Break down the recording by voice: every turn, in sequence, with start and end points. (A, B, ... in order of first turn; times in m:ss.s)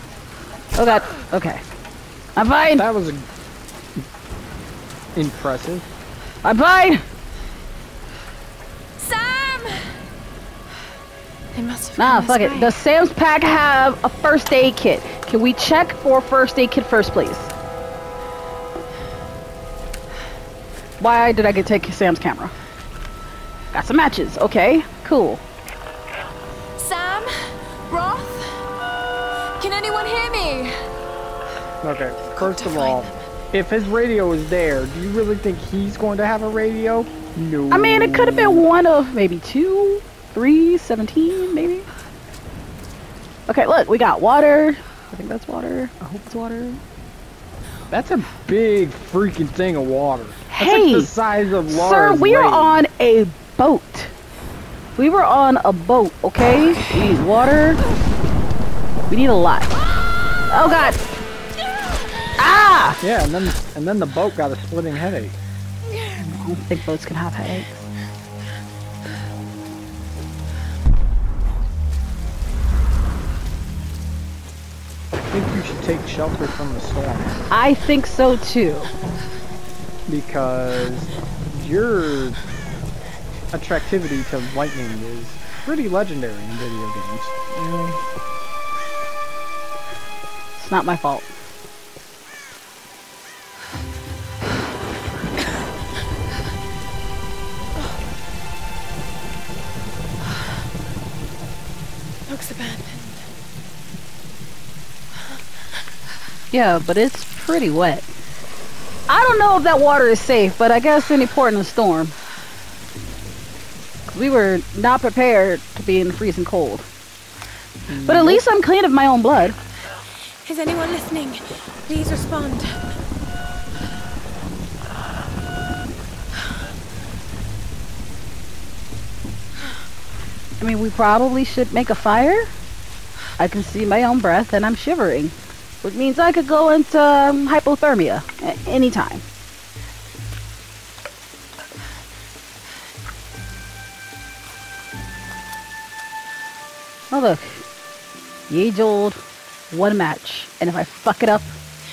0:00.8-0:01.6 A
0:02.4-0:02.9 A
0:02.8-0:03.3 B
0:05.2-0:05.9 B
0:06.4-0:07.0 A
0:09.0-0:10.0 C
0:11.5-0:12.8 C
0:12.0-0:17.5 A
0:21.0-0:22.5 A
0:23.7-0:25.4 A
0:26.8-0:28.7 C
0:29.6-0:30.8 C
0:31.8-0:38.7 B
0:32.2-0:33.3 C
0:37.7-0:41.9 A
0:43.5-0:46.8 A
0:47.9-0:52.8 B
0:50.5-0:51.1 A
0:51.7-0:54.1 A
0:55.0-0:57.8 A
0:59.1-0:59.7 A
1:00.5-1:01.0 A
1:02.4-1:03.0 A
1:03.0-1:05.4 B
1:05.9-1:06.2 C
1:06.2-1:07.9 A
1:15.3-1:17.4 B
1:17.5-1:18.9 A
1:20.1-1:22.4 B
1:23.5-1:27.5 B
1:27.6-1:28.0 A
1:30.6-1:31.3 A
1:42.3-1:43.3 C
1:46.5-1:48.1 A
1:49.1-1:52.2 A
1:54.1-1:56.9 A
1:57.9-1:58.4 B
1:58.0-1:59.6 A
2:00.4-2:02.8 C
2:10.6-2:12.5 A
2:13.4-2:19.2 A
2:27.1-2:27.6 A
2:28.5-2:31.5 A